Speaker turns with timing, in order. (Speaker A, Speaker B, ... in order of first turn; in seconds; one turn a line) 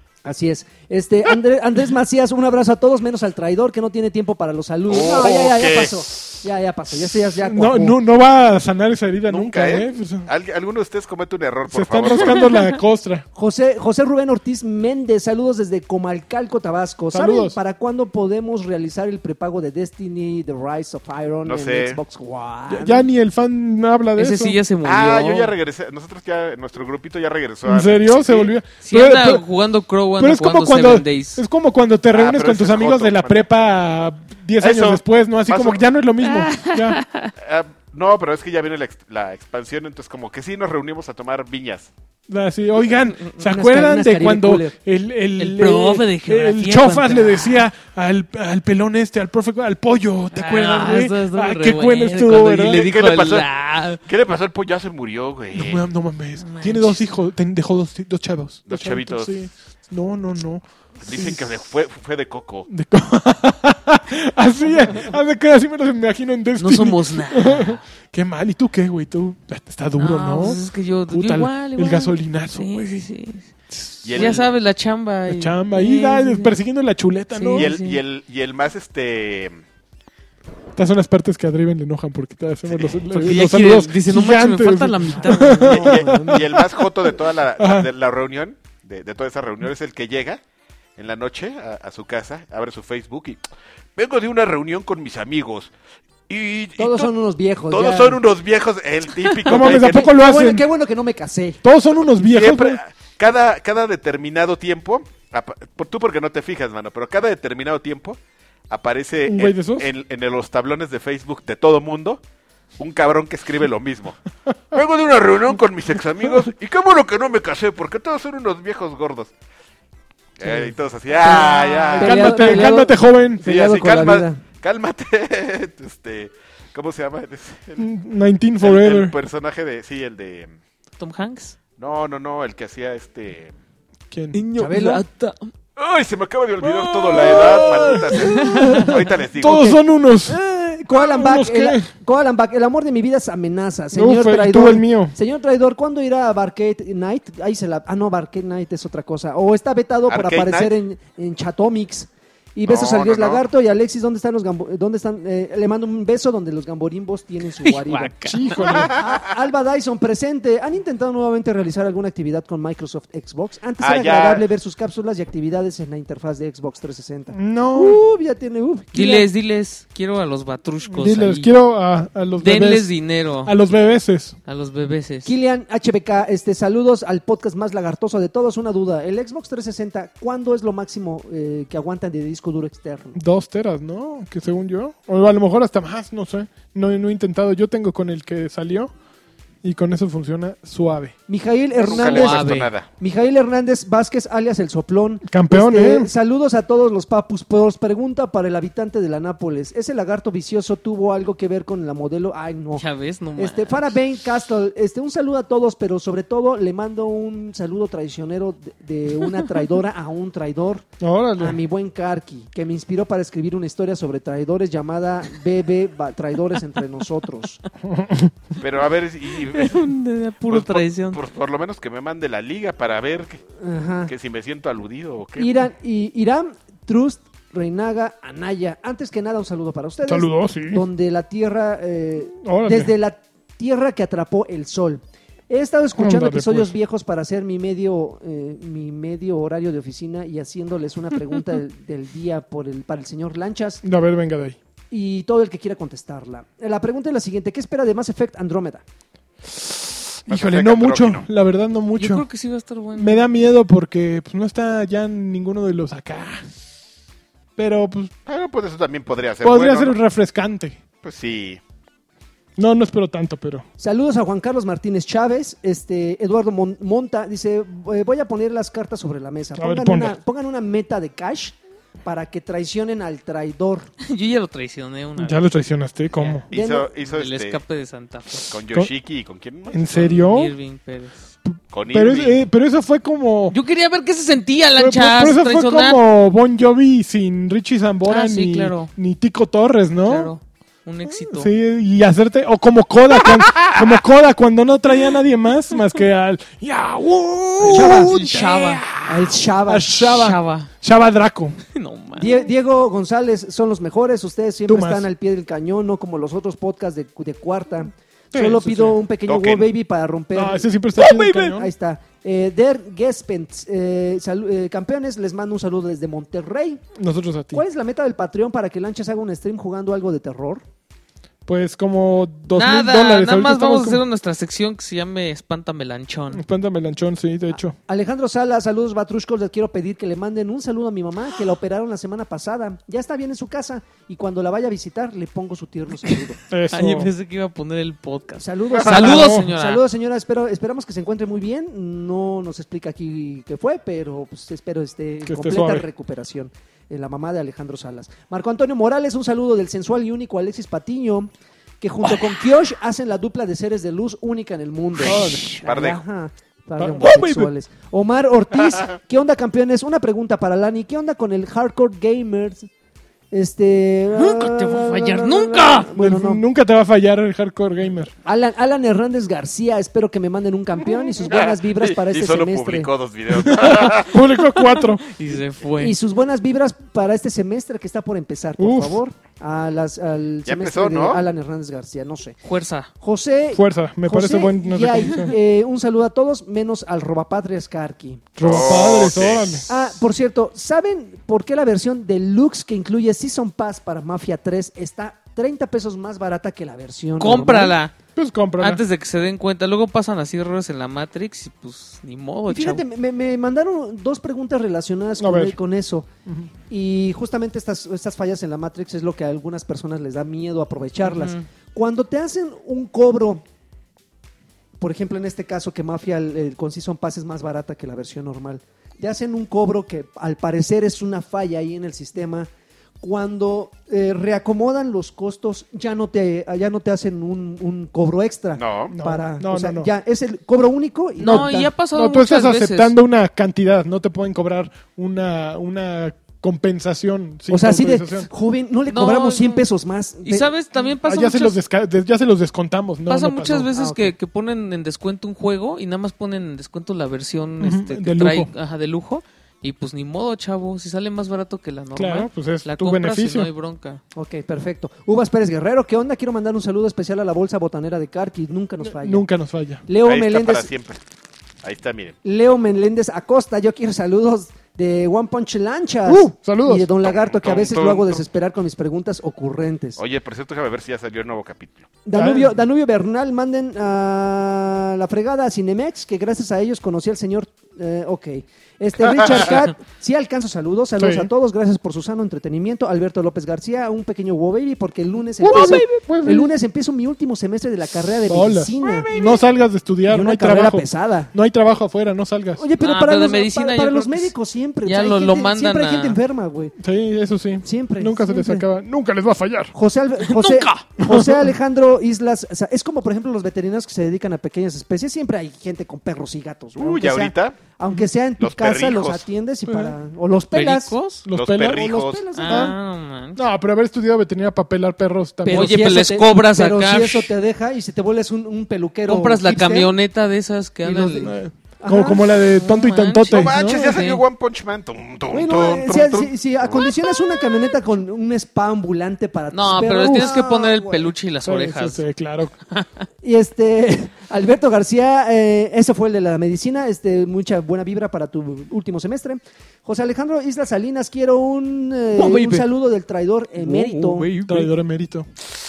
Speaker A: 0.2-8.0
Speaker B: 4.9-6.0
Speaker C: 7.4-10.3
Speaker B: 9.3-12.6
Speaker C: 11.7-13.2
Speaker A: 13.3-23.1
Speaker C: 17.1-17.6
Speaker B: 21.4-22.0
Speaker C: 22.7-24.6
Speaker D: 24.1-25.5
Speaker B: 24.8-28.5
Speaker C: 27.6-29.4
Speaker D: 28.8-31.4
Speaker C: 30.2-37.0
Speaker B: 32.1-33.4
Speaker B: 34.6-35.8
Speaker D: 36.2-37.3
Speaker B: 37.4-41.9
Speaker C: 42.3-52.9
Speaker A: 43.4-44.7
Speaker D: 45.4-47.7
Speaker D: 50.3-54.0
Speaker B: 52.6-53.5
Speaker B: 54.0-55.9
Speaker C: 55.5-61.4
Speaker D: 56.4-57.1
Speaker B: 58.7-59.3
Speaker B: 61.0-62.7
Speaker C: 62.7-73.0
Speaker D: 66.6-67.8
Speaker D: 70.0-73.5
Speaker C: 73.7-74.4
Speaker B: 74.0-74.5
Speaker D: 74.1-76.5
Speaker C: 75.3-77.7
Speaker D: 77.3-78.0
Speaker B: 77.5-79.6
Speaker C: 80.7-86.8
Speaker B: 82.7-83.4
Speaker D: 83.1-86.0
Speaker A: 85.4-86.4
Speaker B: 85.7-90.4
Speaker C: 87.6-87.9
Speaker B: 91.0-93.4
Speaker B: 94.0-95.7
Speaker B: 96.3-97.1
Speaker A: 96.8-98.2
Speaker B: 97.7-100.1
Speaker C: 99.5-100.6
Speaker A: 99.5-101.6
Speaker C: 101.6-102.8
Speaker B: 102.2-108.2
Speaker B: 108.7-112.2
Speaker C: 109.2-109.9
Speaker B: 112.8-114.2
Speaker B: 114.7-119.3
Speaker B: 120.4-122.7
Speaker A: 121.2-124.4
Speaker D: 121.2-121.9
Speaker C: 121.9-123.4
Speaker B: 123.4-127.9
Speaker C: 127.8-129.1
Speaker B: 128.6-130.5
Speaker D: 131.0-131.6
Speaker B: 131.8-133.5
Speaker C: 134.1-134.4
Speaker D: 134.3-135.5
Speaker A: 134.6-135.0
Speaker B: 135.8-139.8
Speaker C: 136.6-140.4
Speaker D: 138.1-138.9
Speaker A: 139.4-158.2
Speaker C: 140.9-141.9
Speaker C: 143.9-145.1
Speaker B: 150.1-150.7
Speaker B: 152.7-153.4
Speaker D: 157.6-158.6
Speaker C: 158.2-159.0
Speaker B: 158.6-159.2
Speaker A: 158.8-169.3
Speaker B: 163.8-164.4
Speaker C: 167.3-168.0
Speaker D: 168.9-171.5
Speaker C: 170.9-172.9
Speaker D: 172.4-173.5
Speaker C: 173.4-174.3
Speaker D: 174.4-175.3
Speaker A: 175.2-183.2
Speaker C: 183.1-188.9
Speaker C: 189.6-191.1
Speaker A: 191.3-202.8
Speaker B: 191.8-192.9
Speaker D: 191.9-192.7
Speaker C: 195.3-196.1
Speaker D: 202.7-203.9
Speaker A: 203.4-217.6
Speaker C: 211.0-211.6
Speaker C: 217.9-218.3
Speaker B: 218.6-219.9
Speaker D: 219.4-221.2
Speaker B: 220.5-223.4
Speaker A: 223.6-224.1
Speaker B: 224.1-225.5
Speaker A: 225.4-243.8
Speaker C: 230.1-230.8
Speaker C: 232.4-232.9
Speaker C: 236.0-236.7
Speaker C: 243.8-244.6
Speaker A: 244.9-248.8
Speaker C: 249.5-252.2
Speaker B: 250.3-251.2
Speaker D: 251.9-253.2
Speaker C: 252.9-256.5
Speaker C: 257.6-258.1
Speaker B: 258.2-260.0
Speaker C: 259.4-260.8
Speaker B: 261.0-261.6
Speaker C: 262.6-263.6
Speaker A: 263.8-273.9
Speaker C: 269.6-270.1
Speaker D: 274.0-275.5
Speaker C: 275.2-276.4
Speaker D: 276.1-276.4
Speaker A: 276.5-276.9
Speaker B: 276.5-277.6
Speaker D: 277.1-278.5
Speaker B: 278.5-280.1
Speaker C: 279.7-280.5
Speaker D: 279.9-281.2
Speaker C: 281.4-283.6
Speaker B: 281.7-282.4
Speaker D: 283.5-286.0
Speaker C: 284.8-290.3
Speaker D: 288.1-288.9
Speaker D: 290.0-291.5
Speaker C: 291.1-299.1
Speaker D: 297.6-298.9
Speaker A: 297.6-298.2
Speaker A: 298.9-300.1
Speaker C: 299.6-301.6
Speaker D: 300.1-300.7
Speaker D: 301.7-302.4
Speaker A: 302.1-310.7
Speaker C: 304.7-305.1
Speaker C: 308.3-309.0
Speaker B: 309.2-309.7
Speaker C: 310.3-311.7
Speaker D: 310.9-311.6
Speaker A: 311.5-316.8
Speaker C: 317.0-317.6
Speaker A: 317.5-320.6
Speaker C: 321.4-324.0
Speaker D: 322.5-326.4
Speaker C: 326.3-327.8
Speaker A: 327.5-336.4
Speaker C: 336.5-337.1
Speaker D: 336.7-339.8
Speaker A: 338.4-362.7
Speaker C: 338.9-339.5
Speaker C: 345.2-345.8
Speaker D: 355.0-355.6
Speaker B: 355.6-356.0
Speaker C: 356.8-357.5
Speaker D: 357.0-357.4
Speaker A: 363.3-366.4
Speaker D: 364.1-365.9
Speaker C: 365.9-368.1
Speaker A: 368.2-372.9
Speaker B: 371.2-374.2
Speaker C: 373.3-375.1
Speaker D: 374.6-376.0
Speaker A: 375.8-382.4
Speaker C: 378.6-379.0
Speaker B: 380.4-381.2
Speaker D: 382.4-382.9
Speaker A: 383.0-388.3
Speaker C: 383.5-385.3
Speaker C: 388.3-389.7
Speaker B: 388.4-389.7
Speaker A: 389.7-397.7
Speaker D: 397.2-397.9
Speaker C: 398.1-398.8
Speaker D: 398.6-402.8
Speaker A: 402.5-406.1
Speaker C: 405.2-405.6
Speaker C: 406.2-406.5
Speaker A: 406.7-413.4
Speaker D: 411.0-411.5
Speaker A: 414.8-422.5
Speaker A: 423.0-431.7
Speaker B: 428.6-428.9
Speaker C: 428.9-429.9
Speaker D: 431.2-432.9
Speaker C: 431.2-438.3
Speaker A: 437.5-440.5
Speaker D: 438.9-439.6
Speaker D: 440.2-441.6
Speaker C: 441.0-443.7
Speaker D: 443.1-454.0
Speaker A: 443.7-444.1
Speaker C: 447.6-448.5
Speaker C: 451.9-453.5
Speaker A: 454.1-459.2
Speaker C: 458.8-459.8
Speaker A: 459.9-460.7
Speaker B: 460.0-461.0
Speaker B: 461.6-462.1
Speaker A: 462.2-470.0
Speaker C: 466.1-466.9
Speaker B: 467.0-468.2
Speaker B: 470.0-471.9
Speaker A: 472.0-489.1
Speaker C: 472.1-472.5
Speaker B: 479.0-479.6
Speaker C: 481.0-481.3
Speaker C: 485.4-486.5
Speaker D: 485.4-486.0
Speaker C: 488.3-492.6
Speaker D: 488.8-489.4
Speaker A: 490.1-491.3
Speaker A: 492.6-496.7
Speaker D: 492.8-494.3
Speaker D: 494.8-496.2
Speaker C: 496.8-499.7
Speaker A: 497.6-498.6
Speaker A: 499.7-510.9
Speaker D: 500.2-500.9
Speaker C: 501.0-501.4
Speaker B: 506.8-507.6
Speaker B: 508.4-509.2
Speaker C: 509.7-509.9
Speaker D: 510.5-511.2
Speaker C: 511.2-511.8
Speaker B: 511.3-512.2
Speaker A: 511.6-512.7
Speaker D: 512.3-513.4
Speaker C: 512.5-512.8
Speaker C: 513.3-515.9
Speaker A: 515.4-519.9
Speaker D: 515.5-517.3
Speaker D: 519.1-521.3
Speaker A: 520.8-522.5
Speaker C: 521.2-523.8
Speaker D: 522.4-524.2
Speaker B: 523.3-527.0
Speaker A: 525.3-531.1
Speaker D: 529.5-532.0
Speaker C: 531.4-532.5
Speaker D: 532.7-533.0
Speaker A: 533.2-544.3
Speaker D: 542.1-542.6
Speaker D: 543.6-544.7
Speaker C: 544.5-545.2